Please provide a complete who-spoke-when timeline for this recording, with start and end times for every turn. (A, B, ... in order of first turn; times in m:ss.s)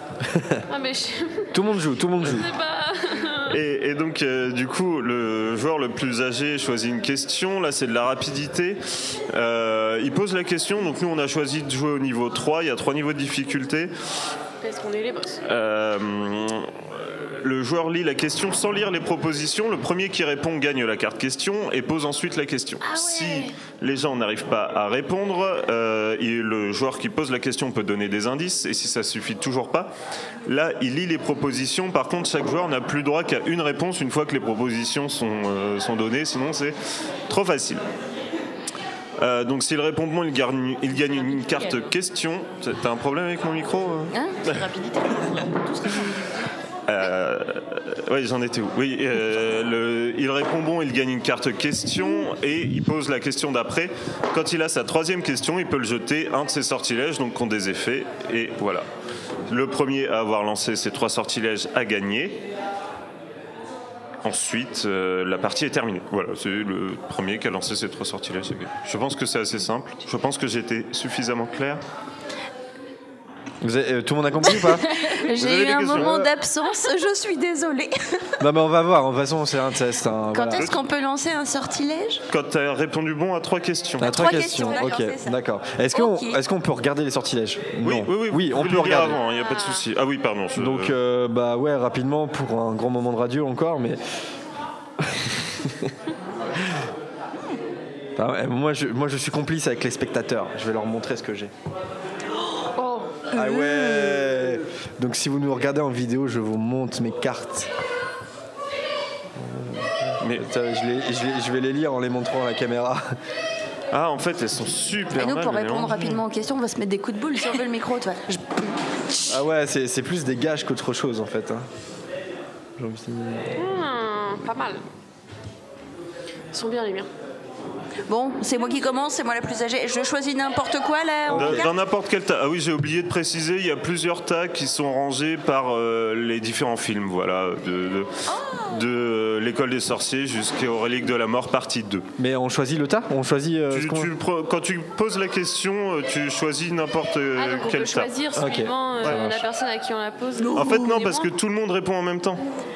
0:00.2-0:00.6 A
0:00.7-0:01.5 B
0:01.5-0:02.5 A
0:02.2-0:03.6 B
0:03.5-0:13.9 C
0:14.6-0:15.4 B
0:15.4-0:29.9 C
0:22.9-0:23.4 B
0:30.4-0:36.8 C
0:37.3-0:37.8 C
0:39.2-0:44.1 C
0:40.9-0:41.9 D
0:44.4-0:46.5 D
0:46.9-0:58.9 C
0:59.5-1:02.4 C
1:04.2-1:11.8 C
1:13.6-1:14.9 A
1:14.6-1:17.9 E
1:15.4-1:16.3 C
1:15.9-1:16.3 A
1:18.4-1:20.7 A
1:20.3-1:22.2 E
1:20.5-1:20.8 C
1:22.3-1:24.2 C
1:24.0-1:29.2 A
1:24.0-1:25.4 E
1:25.9-1:26.4 E
1:27.8-1:30.9 C
1:30.6-1:34.0 A
1:35.0-1:35.9 A
1:38.2-1:41.5 A
1:42.8-1:43.2 B
1:43.3-1:44.3 E
1:43.3-1:47.7 A
1:49.4-1:53.0 A
1:50.2-1:50.4 C
1:53.9-1:56.1 C
1:55.1-1:59.4 E
1:59.3-2:01.7 A
2:02.8-2:03.6 A
2:03.6-2:04.8 B
2:06.5-2:07.1 B
2:08.1-2:11.7 E
2:11.3-2:11.7 A
2:11.3-2:18.1 C
2:18.7-2:22.0 C
2:22.2-2:24.1 A
2:23.7-2:28.1 C
2:27.4-2:31.3 B
2:28.4-2:29.4 A
2:29.0-2:29.3 C
2:30.5-2:32.4 C
2:30.6-2:30.9 E